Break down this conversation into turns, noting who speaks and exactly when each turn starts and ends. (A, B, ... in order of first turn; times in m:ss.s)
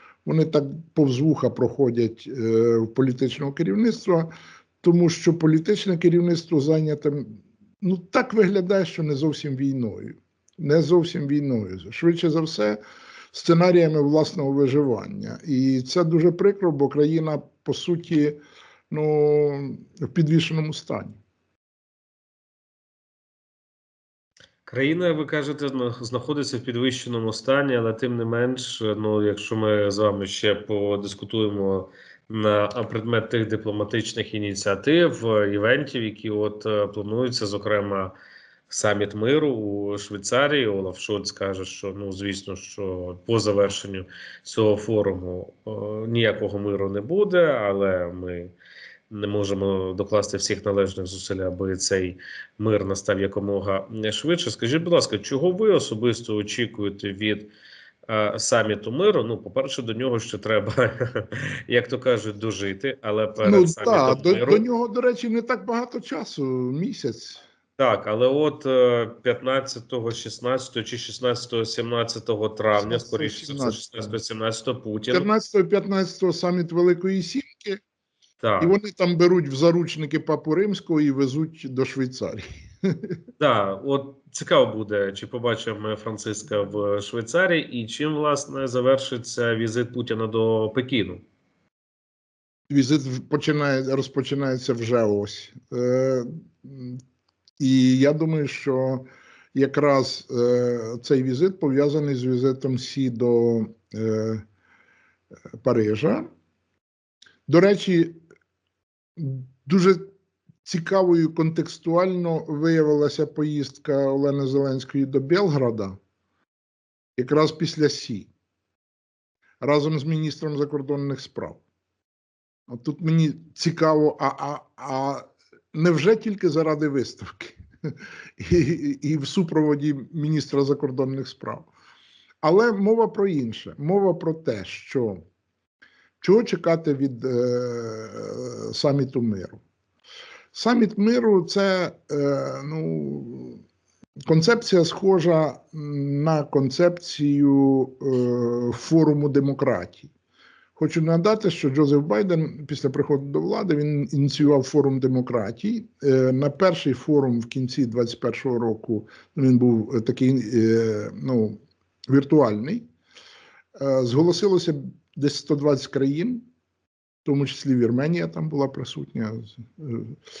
0:00.2-0:12.8 A
0:13.3-0:18.4 A
0:18.9-0:21.2 A
0:24.6-0:38.1 B
0:38.7-0:48.5 B
0:49.1-0:57.5 B
0:58.1-1:04.6 B
1:03.4-1:07.4 A
1:07.8-1:15.3 B
1:12.8-1:14.2 A
1:15.1-1:17.8 A
1:18.4-1:18.7 B
1:18.6-1:23.2 A
1:23.4-1:31.2 B
1:32.7-1:37.0 A
1:37.6-1:44.4 A
1:45.6-1:46.3 A
1:47.5-1:48.2 A
1:49.2-1:50.1 A
1:50.6-1:56.0 A
1:57.2-1:58.3 A
1:59.6-2:01.6 A
2:02.7-2:11.7 A
2:12.4-2:15.2 A
2:16.2-2:19.6 A
2:20.5-2:23.6 A
2:24.2-2:30.1 A
2:30.8-2:42.9 A
2:43.8-2:46.4 A
2:47.2-2:50.2 A